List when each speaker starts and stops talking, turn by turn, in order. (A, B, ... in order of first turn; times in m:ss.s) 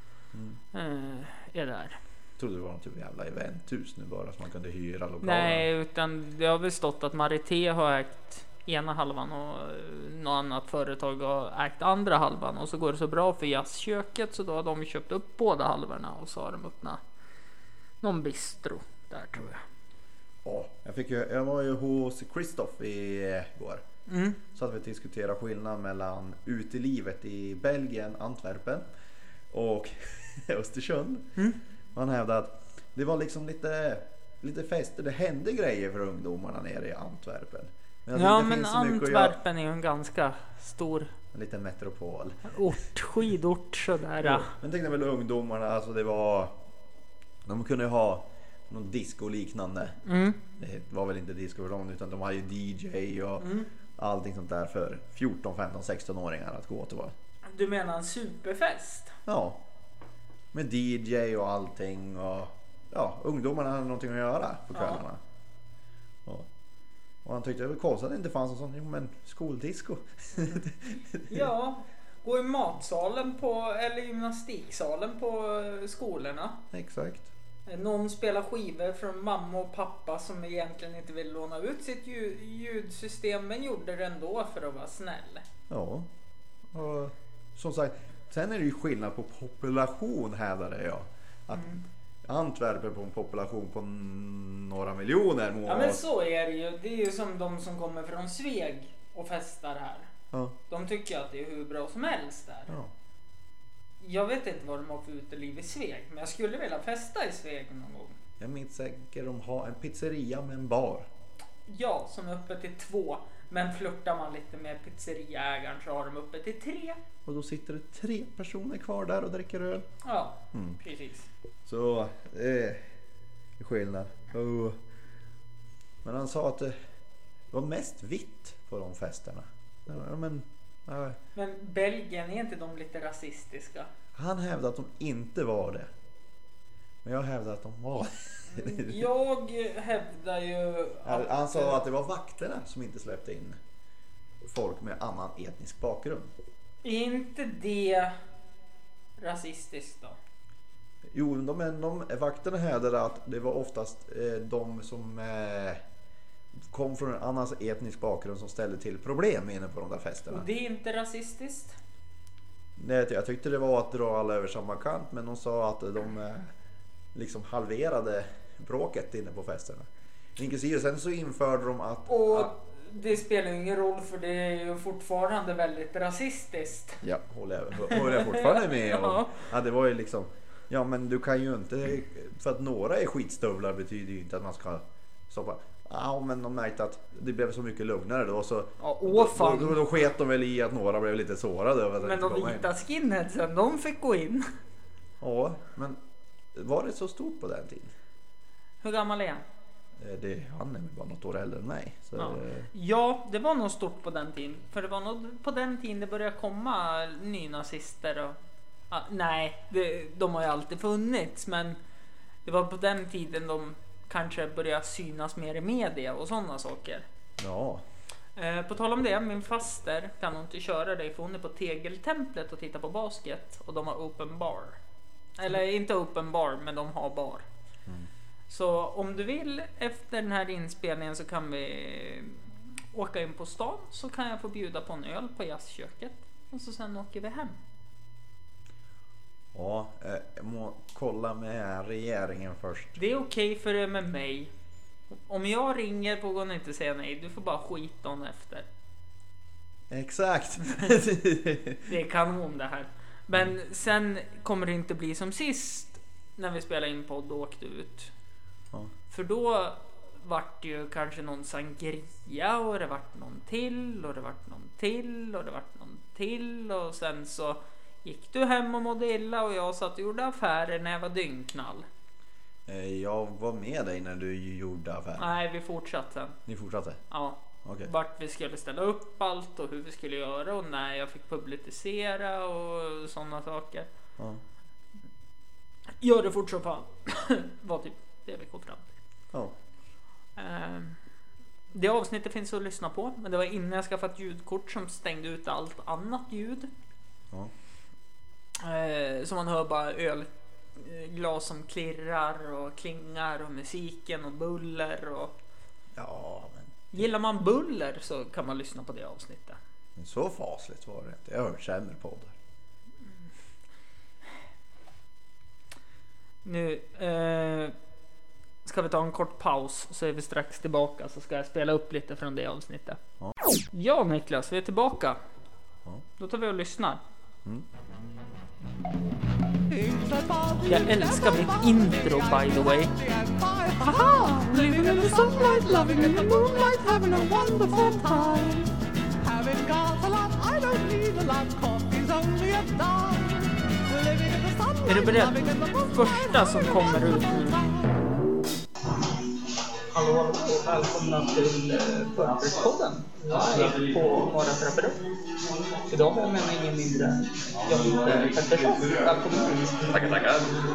0:00.3-0:00.6 A
0:00.7-0:02.0 B
0:02.4-0:05.7 A
0:05.2-0:17.0 B
0:18.0-0:19.6 B
0:20.4-0:23.8 A
0:24.1-0:24.4 B
0:24.5-0:28.9 A
0:29.5-0:31.3 A
0:31.9-0:39.4 A
0:38.1-0:41.1 B
0:41.3-0:42.6 A
0:42.4-0:44.5 B
0:44.2-0:46.6 A
0:47.4-0:50.0 A
0:50.0-0:50.4 B
0:50.6-0:57.1 A
0:53.4-0:53.7 B
0:57.4-0:59.2 B
0:59.2-0:59.6 A
1:00.5-1:05.2 A
1:04.7-1:05.0 B
1:07.2-1:11.5 A
1:11.3-1:16.6 B
1:16.7-1:17.3 A
1:17.7-1:25.4 B
1:25.7-1:26.1 A
1:26.7-1:36.0 A
1:31.5-1:31.8 B
1:35.6-1:40.1 B
1:40.7-1:42.7 B
1:44.0-1:48.2 B
1:48.4-1:51.1 A
1:51.7-1:57.0 B
1:57.2-1:59.9 A
2:00.0-2:01.3 B
2:00.5-2:00.8 A
2:01.6-2:02.8 A
2:03.6-2:04.8 A
2:06.0-2:06.7 A
2:07.5-2:11.2 A
2:11.3-2:13.9 B
2:14.1-2:15.9 A
2:17.0-2:19.0 A
2:18.5-2:21.8 B
2:21.0-2:23.6 A
2:24.4-2:26.3 A
2:26.8-2:28.1 B
2:29.2-2:30.2 B
2:31.1-2:35.8 A
2:36.6-2:40.4 A
2:40.3-2:41.8 B
2:42.8-2:46.5 A
2:47.1-2:52.5 A
2:52.1-2:57.0 B
2:57.0-3:12.7 A
2:57.8-2:59.4 B
3:08.8-3:09.8 B
3:12.0-3:14.5 B
3:15.2-3:16.0 A
3:16.5-3:17.9 A
3:18.8-3:19.4 B
3:20.0-3:22.7 A
3:22.2-3:28.4 B
3:28.9-3:31.8 B
3:32.4-3:37.0 B
3:37.4-3:37.8 A
3:38.4-3:44.8 B
3:45.4-3:47.4 B
3:48.5-3:57.6 B
3:59.5-4:03.0 A
4:03.0-4:04.5 B
4:05.3-4:08.7 B
4:09.9-4:11.8 A
4:11.8-4:18.1 B
4:19.1-4:31.8 B
4:32.7-4:35.3 A
4:35.2-4:36.4 B
4:36.4-4:37.0 A
4:37.1-4:43.9 B
4:37.6-4:37.9 A
4:46.0-4:48.9 B
4:50.4-4:51.0 B
4:51.7-4:56.7 B
4:58.6-5:05.3 B
5:05.9-5:06.9 A
5:06.9-5:09.6 B
5:10.0-5:12.3 A
5:16.4-5:17.7 B
5:18.6-5:23.0 B
5:23.7-5:25.2 B
5:26.2-5:27.0 B
5:27.4-5:27.8 A
5:29.7-5:38.7 C
5:30.6-5:32.9 B
5:33.8-5:36.5 B
5:39.2-5:47.9 C
5:44.9-5:47.7 B
5:49.9-5:55.0 B
5:55.9-6:00.5 B